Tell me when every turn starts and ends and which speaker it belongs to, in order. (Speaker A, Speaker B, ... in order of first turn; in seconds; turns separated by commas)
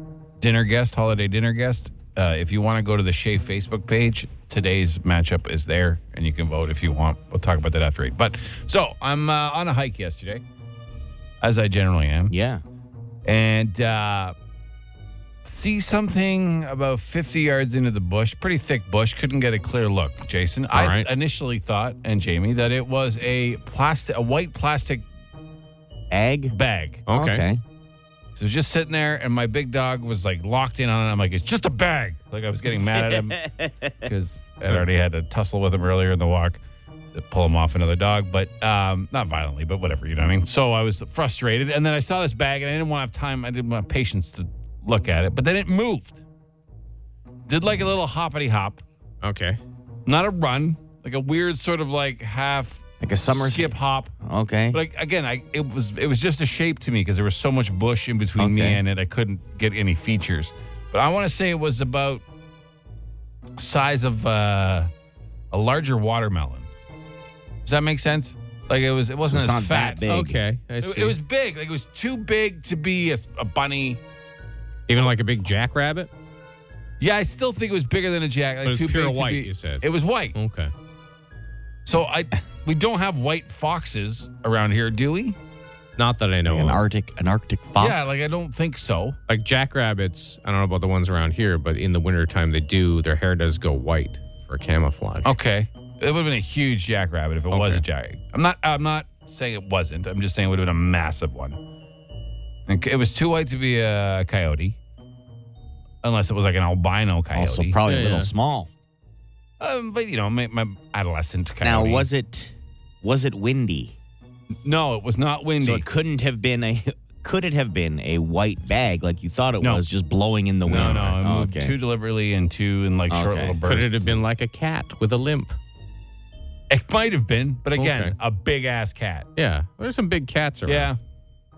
Speaker A: 0.4-10.4, Speaker A: 11.4-12.3, Speaker B: 12.3-12.6, Speaker A: 13.2-14.3, Speaker A: 15.4-25.1, Speaker C: 20.7-21.1, Speaker B: 26.1-26.5, Speaker A: 26.5-27.1, Speaker C: 27.1-27.4, Speaker B: 27.1-27.6, Speaker A: 28.4-33.4, Speaker B: 32.8-34.1, Speaker A: 34.0-36.6, Speaker A: 37.1-46.2, Speaker A: 47.5-48.8, Speaker C: 49.2-49.6, Speaker A: 50.0-54.1, Speaker B: 53.0-54.8, Speaker A: 54.7-62.2, Speaker B: 58.4-58.8, Speaker A: 63.6-64.9, Speaker A: 65.5-66.7, Speaker A: 67.6-70.0, Speaker B: 69.2-70.4, Speaker C: 70.1-71.2, Speaker A: 70.8-74.0, Speaker C: 74.9-76.1, Speaker A: 77.0-80.3, Speaker C: 78.6-80.7, Speaker A: 81.8-85.4, Speaker C: 86.0-86.8, Speaker B: 86.5-88.3, Speaker A: 87.8-89.2, Speaker C: 89.3-95.3, Speaker A: 95.2-101.6, Speaker C: 97.5-97.8, Speaker A: 102.7-104.8, Speaker A: 106.0-107.8, Speaker B: 107.3-108.7, Speaker C: 107.8-108.3, Speaker A: 109.6-112.1, Speaker B: 111.6-114.0, Speaker A: 114.6-115.8, Speaker B: 115.6-121.8, Speaker A: 120.7-124.2, Speaker B: 123.1-123.6, Speaker C: 123.6-125.6, Speaker A: 126.7-129.3, Speaker C: 127.8-128.1, Speaker C: 129.3-130.9, Speaker A: 130.7-131.0